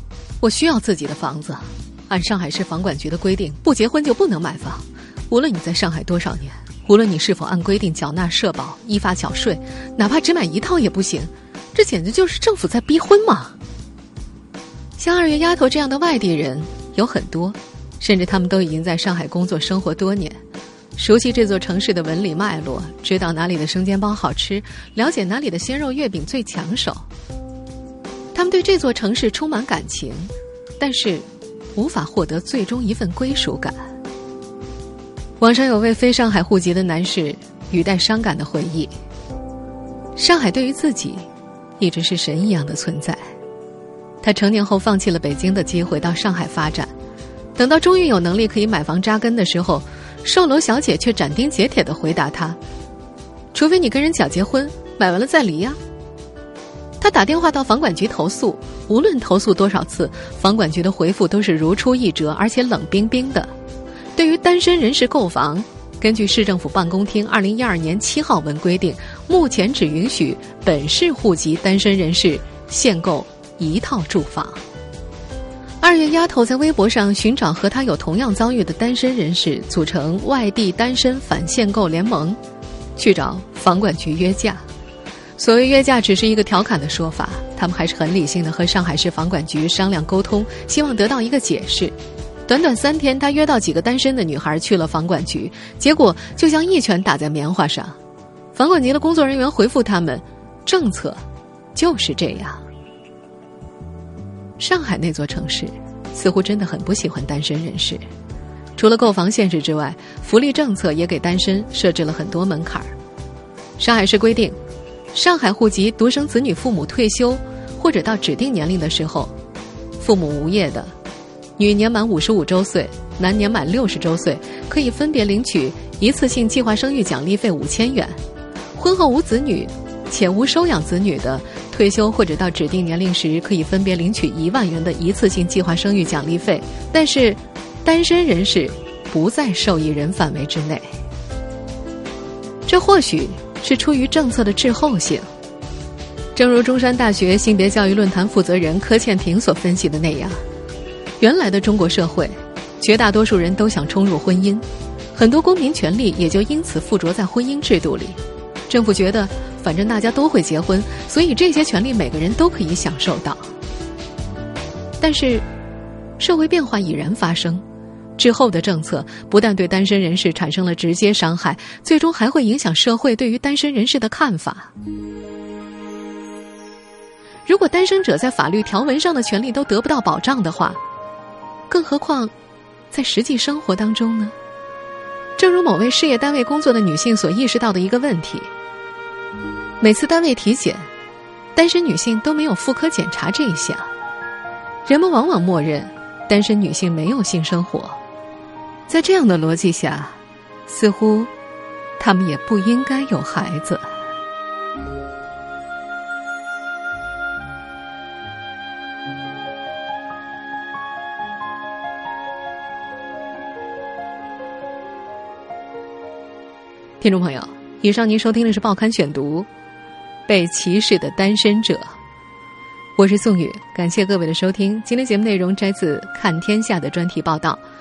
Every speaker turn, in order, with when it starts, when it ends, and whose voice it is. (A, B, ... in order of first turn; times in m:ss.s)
0:00.4-0:13.6 A
0:15.0-0:20.4 A
0:21.0-0:27.0 A
0:28.3-0:33.9 A
0:35.4-0:38.9 A
0:40.2-0:41.3 A
0:41.8-0:43.3 A
0:44.2-0:46.9 A
0:47.6-0:52.6 A
0:53.5-0:55.8 A
0:57.0-1:03.5 A
1:04.2-1:14.6 A
1:15.8-1:22.4 A
1:23.0-1:24.6 A
1:25.4-1:32.0 A
1:32.5-1:38.0 A
1:38.5-1:41.2 A
1:41.7-1:42.6 A
1:44.6-1:48.0 A
1:48.8-1:52.9 A
1:53.8-1:54.6 A
1:55.1-1:59.3 A
2:00.0-2:00.9 A
2:01.6-2:08.2 A
2:08.8-2:20.9 A
2:22.6-2:25.3 A
2:26.3-2:30.4 A
2:31.2-2:43.5 A
2:45.0-2:45.5 A
2:46.2-2:47.6 A
2:48.2-2:54.7 A
2:57.4-3:00.8 A
3:01.7-3:02.3 A
3:02.9-3:04.3 A
3:05.4-3:08.5 A
3:09.8-3:10.9 A
3:11.5-3:13.9 A
3:14.8-3:18.0 A
3:18.9-3:21.3 A
3:22.0-3:23.9 A
3:37.0-3:39.5 A
3:40.3-3:41.9 A
3:43.0-3:47.6 A